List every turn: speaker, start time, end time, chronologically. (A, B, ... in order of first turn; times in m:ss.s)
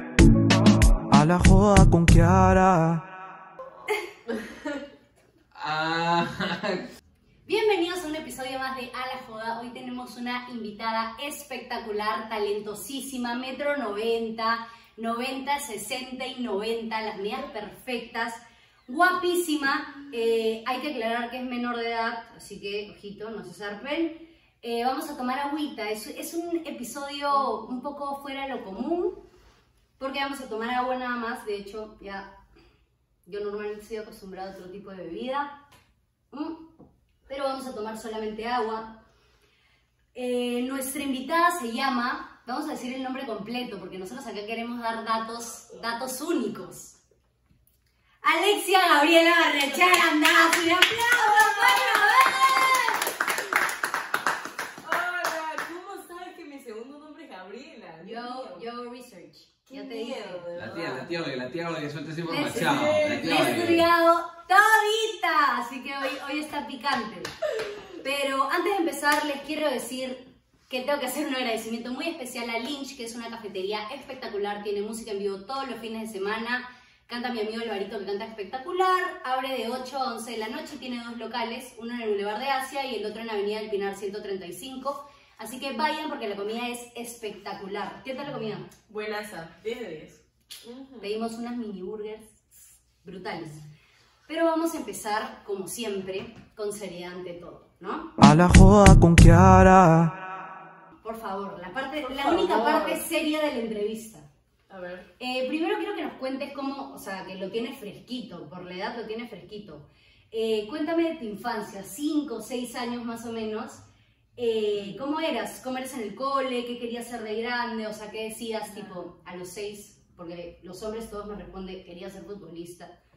0:01.1-0:03.1 A
0:04.3-0:04.8 B
0:05.5-0:06.8 C
0:07.4-0:29.2 D
0:27.3-0:27.8 B
0:30.0-0:32.3 D
0:33.2-0:35.5 D
0:36.3-0:36.6 D
0:37.3-0:39.0 D
0:40.1-0:47.0 D
0:48.2-0:53.0 D
0:51.4-0:52.8 B
0:54.8-0:58.6 B
0:58.0-1:00.4 D
0:59.7-1:01.1 B
1:00.5-1:03.9 C
1:02.3-1:07.3 D
1:02.5-1:03.7 B
1:08.0-1:28.7 D
1:28.9-1:31.1 B
1:31.0-1:32.5 D
1:33.0-1:33.6 D
1:34.3-1:38.1 D
1:38.2-1:40.2 A
1:41.0-1:44.3 D
1:42.0-1:43.0 B
1:44.7-1:45.1 B
1:45.2-1:53.8 D
1:54.4-2:02.9 D
1:54.7-1:55.0 B
1:58.7-1:59.0 B